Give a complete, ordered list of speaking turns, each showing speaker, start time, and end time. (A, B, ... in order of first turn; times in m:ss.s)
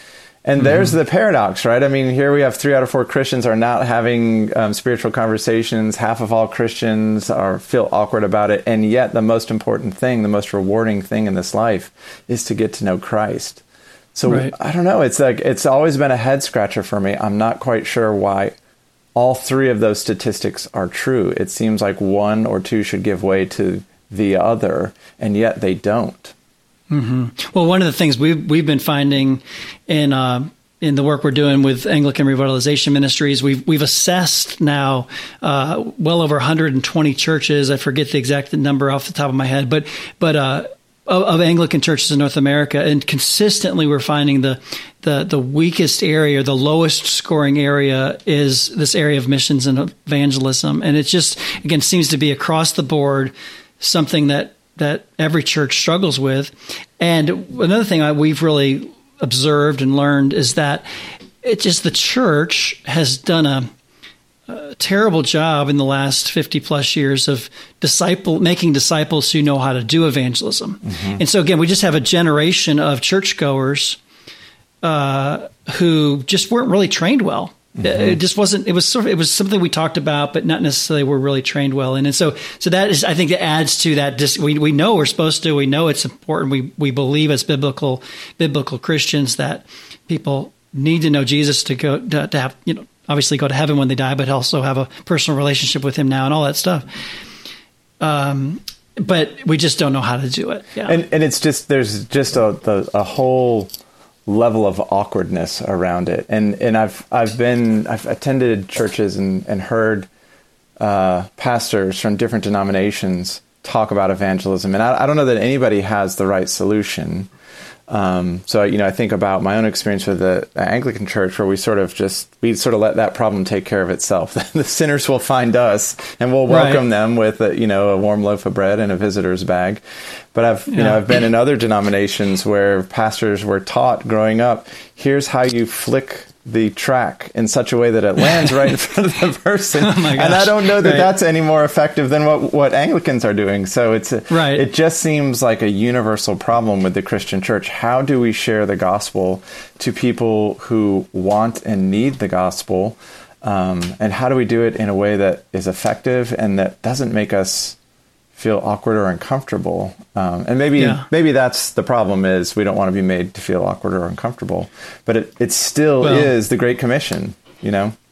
0:00.4-0:13.6 A
0:00.6-0:01.0 B
0:14.1-0:18.5 A
0:14.2-0:14.5 B
0:19.2-0:26.3 A
0:26.9-1:00.8 B
1:01.4-1:03.7 B
1:04.5-1:14.0 B
1:10.9-1:11.2 A
1:14.8-1:36.8 B
1:17.8-1:18.2 A
1:38.0-1:41.0 B
1:40.8-1:43.7 A
1:44.3-1:50.1 A
1:50.8-1:57.3 A
1:57.9-2:09.8 A
2:06.5-2:06.8 B
2:10.3-2:37.8 A
2:10.7-2:11.2 B
2:19.8-2:21.1 B
2:24.3-2:24.7 B
2:38.4-2:47.9 A
2:40.8-2:41.0 B
2:46.0-2:46.3 B